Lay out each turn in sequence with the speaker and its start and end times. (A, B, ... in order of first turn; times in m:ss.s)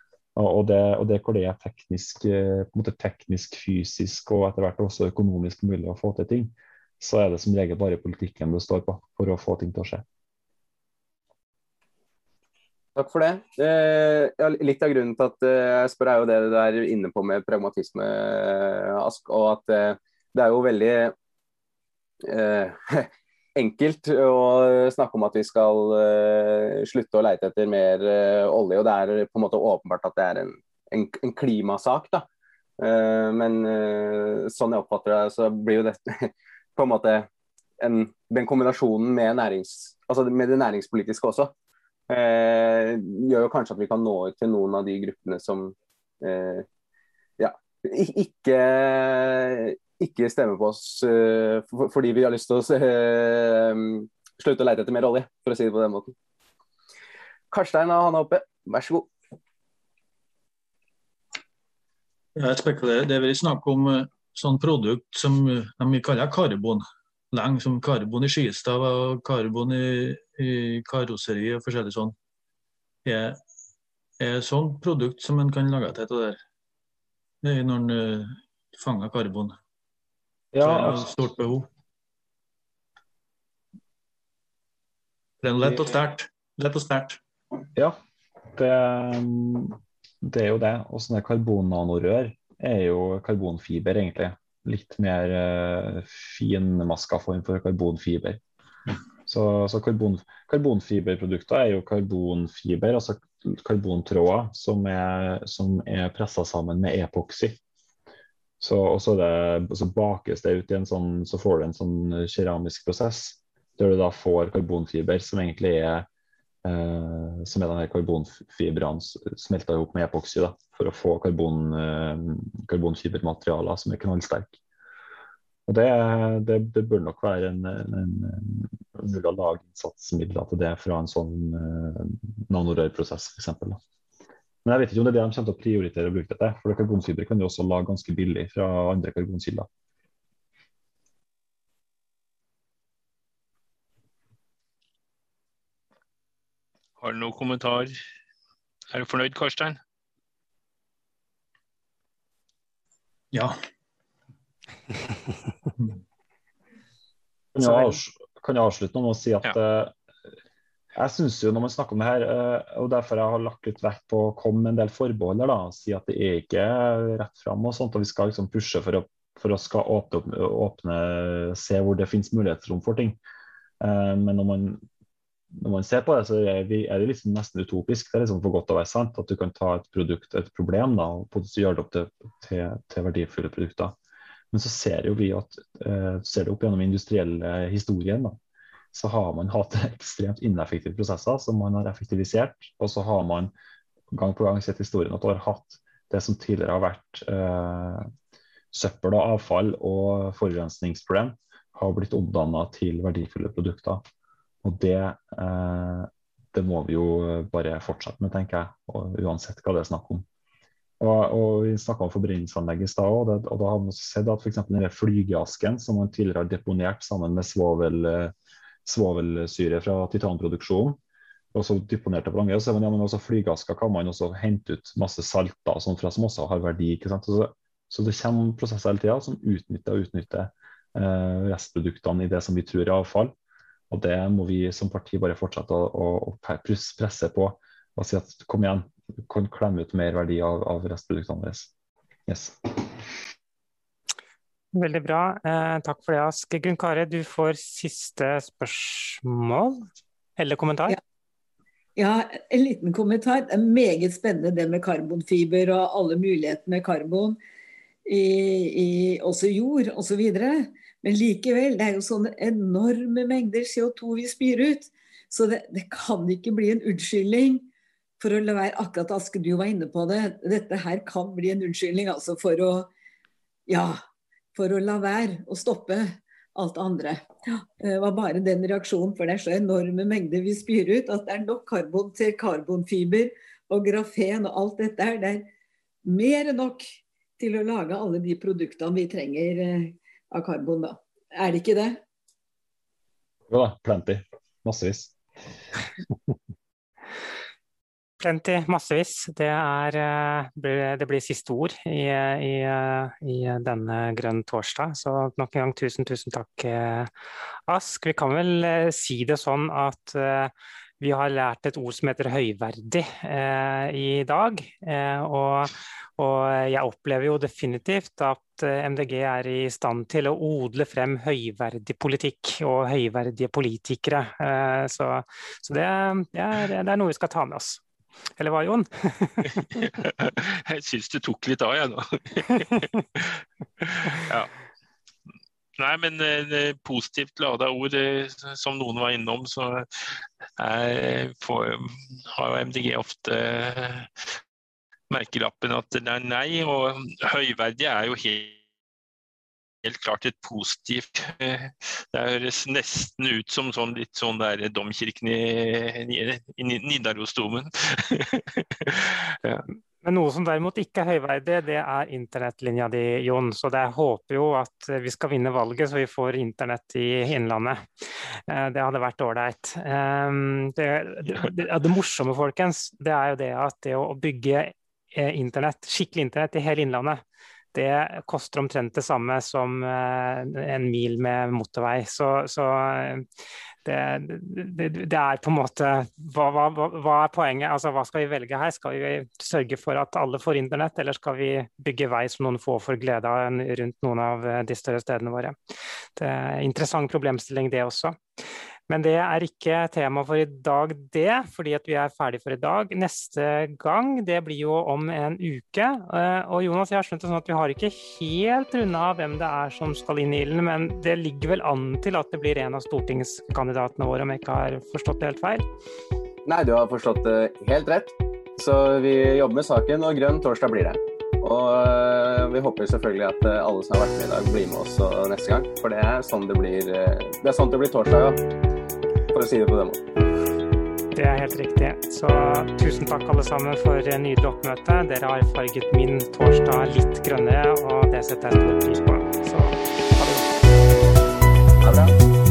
0:00.3-0:10.0 A
0:13.0-0:21.1 B
0:22.2-0:32.2 B
0:32.8-0:37.3 B
0:37.8-0:41.5 B
0:42.1-0:46.6 B
0:47.4-0:56.1 B
0:57.5-0:59.1 B
1:02.4-1:12.2 C
1:13.0-1:13.4 C
1:14.2-1:16.4 C
1:17.4-1:19.6 C
1:20.5-1:21.1 A
1:20.6-1:21.7 C
1:25.4-1:27.2 C
1:25.6-1:26.0 A
1:28.5-1:38.4 A
1:39.2-1:47.6 A
1:48.6-1:56.1 A
1:56.6-2:04.6 A
2:05.7-2:13.8 A
2:14.6-2:19.7 A
2:27.0-2:28.0 D
2:28.9-2:29.8 D
2:33.3-2:33.6 C
2:37.5-2:39.9 A
2:40.9-2:53.2 A
2:53.8-2:54.8 A
2:55.5-3:04.0 A
3:04.5-3:08.4 A
3:08.9-3:13.5 A
3:14.1-3:18.1 A
3:18.7-3:24.0 A
3:24.6-3:30.2 A
3:31.0-3:41.0 A
3:41.5-3:53.3 A
3:53.9-4:01.7 A
4:02.3-4:03.0 A
4:04.7-4:11.0 E
4:12.0-4:17.4 F
4:18.0-4:27.7 F
4:28.2-4:32.9 F
4:33.7-4:34.0 F
4:34.5-4:45.5 F
4:46.0-4:52.0 F
4:53.5-4:55.1 A
4:58.2-5:07.1 E
5:07.7-5:27.8 E
5:28.4-5:29.6 E
5:29.4-5:34.5 D
5:35.8-5:44.3 D
5:45.1-5:48.6 D
5:49.8-5:59.6 D
6:00.0-6:07.8 E
6:08.5-6:17.2 E
6:17.7-6:23.2 E
6:23.8-6:35.5 E
6:36.2-6:38.2 E
6:38.9-6:55.6 E
6:56.4-7:08.4 B
7:09.3-7:10.0 B
7:11.1-7:20.5 E